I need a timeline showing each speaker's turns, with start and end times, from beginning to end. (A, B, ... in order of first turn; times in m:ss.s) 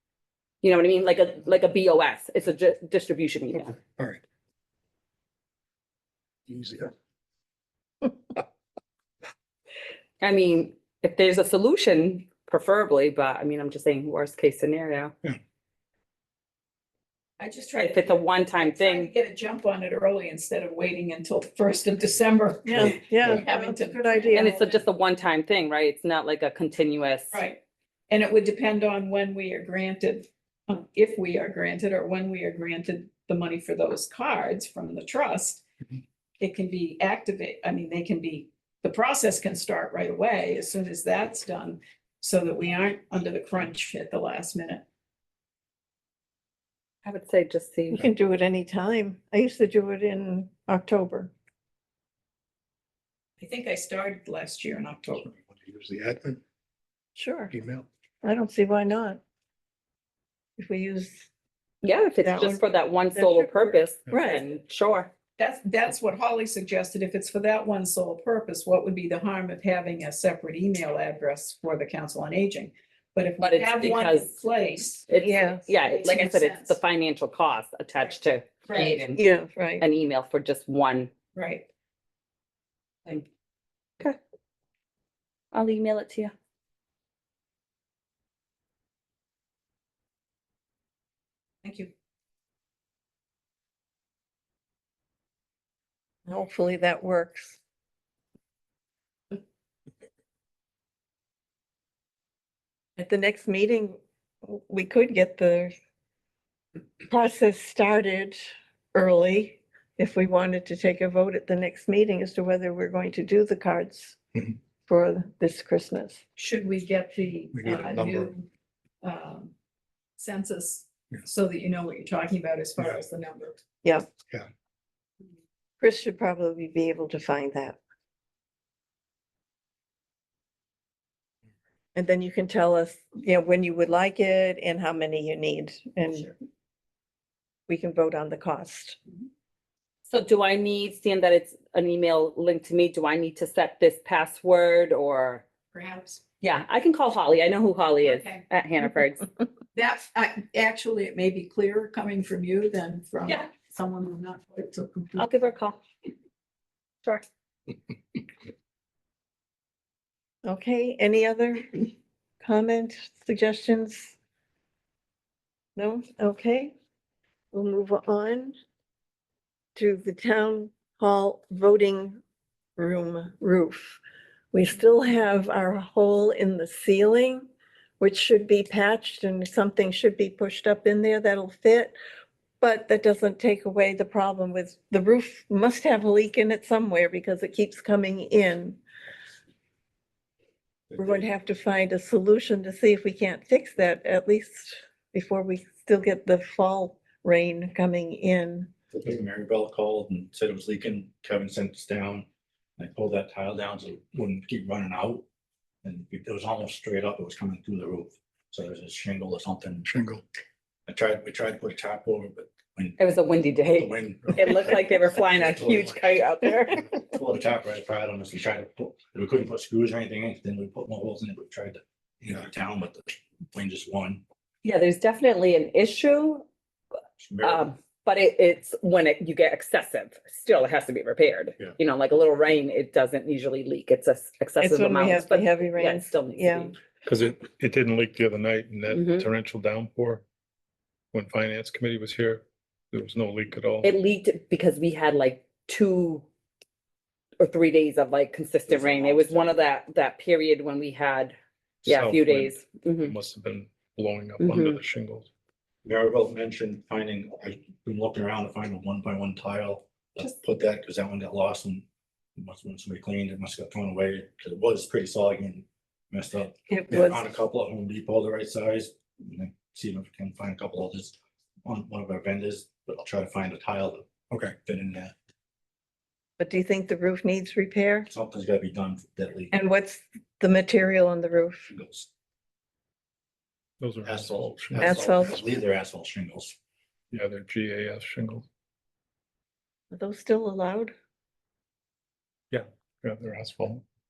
0:00.6-0:03.7 A
0:03.7-0:04.2 B
0:06.5-0:06.9 B
0:10.2-0:15.1 A
0:17.4-0:24.8 C
0:17.8-0:19.1 A
0:22.6-0:24.6 D
0:24.3-0:27.4 A
0:27.3-0:27.6 C
0:28.1-0:35.6 C
0:36.4-0:44.8 C
0:47.0-0:48.1 A
0:47.9-0:51.3 D
0:53.4-0:55.3 C
0:55.4-0:56.4 B
0:57.2-0:57.5 D
0:57.5-0:57.8 B
0:58.2-0:59.2 D
1:00.6-1:01.3 D
1:01.8-1:05.1 A
1:02.2-1:04.4 D
1:05.4-1:15.2 C
1:13.4-1:14.3 A
1:15.1-1:19.2 A
1:15.2-1:15.6 D
1:15.7-1:16.8 C
1:18.6-1:19.0 C
1:19.1-1:19.8 D
1:19.8-1:21.1 A
1:21.3-1:21.7 C
1:25.5-1:26.3 A
1:31.6-1:31.9 C
1:36.3-1:37.6 D
1:43.0-1:45.7 D
1:47.1-1:48.4 D
1:48.9-1:54.2 D
1:54.8-1:56.2 D
1:56.4-1:58.4 C
1:59.0-1:59.5 C
2:00.2-2:03.6 C
2:05.8-2:07.8 D
2:11.9-2:16.3 D
2:17.7-2:19.0 D
2:20.1-2:25.4 A
2:25.7-2:26.2 C
2:26.4-2:29.2 A
2:28.0-2:28.4 C
2:29.7-2:35.3 C
2:35.2-2:35.8 A
2:40.4-2:41.9 D
2:42.4-2:44.2 D
2:45.8-2:46.7 D
2:47.5-2:48.6 D
2:49.8-2:52.2 D
2:52.8-2:54.0 D
2:54.5-2:57.5 D
2:58.0-3:01.9 D
3:02.6-3:08.8 D
3:11.0-3:18.7 D
3:18.9-3:22.2 E
3:22.8-3:25.2 E
3:25.8-3:29.9 E
3:30.9-3:33.0 E
3:33.0-3:36.8 A
3:33.8-3:36.1 E
3:37.0-3:44.2 E
3:44.6-3:46.5 A
3:47.2-3:47.7 E
3:47.4-3:56.7 A
3:54.6-3:56.7 D
3:57.0-4:00.2 F
3:58.9-3:59.3 A
4:01.1-4:03.9 F
4:03.8-4:06.2 A
4:07.4-4:13.1 A
4:08.7-4:09.6 E
4:11.8-4:15.3 F
4:14.4-4:14.8 A
4:15.8-4:21.8 E
4:22.4-4:35.1 E
4:26.7-4:27.2 D
4:36.4-4:38.1 D
4:38.1-4:39.5 E
4:39.5-4:41.7 D
4:41.7-4:42.1 E
4:43.8-4:44.9 F
4:44.0-4:46.6 E
4:44.8-4:45.4 D
4:47.1-4:48.4 F
4:49.9-4:50.9 D
4:52.5-4:53.8 F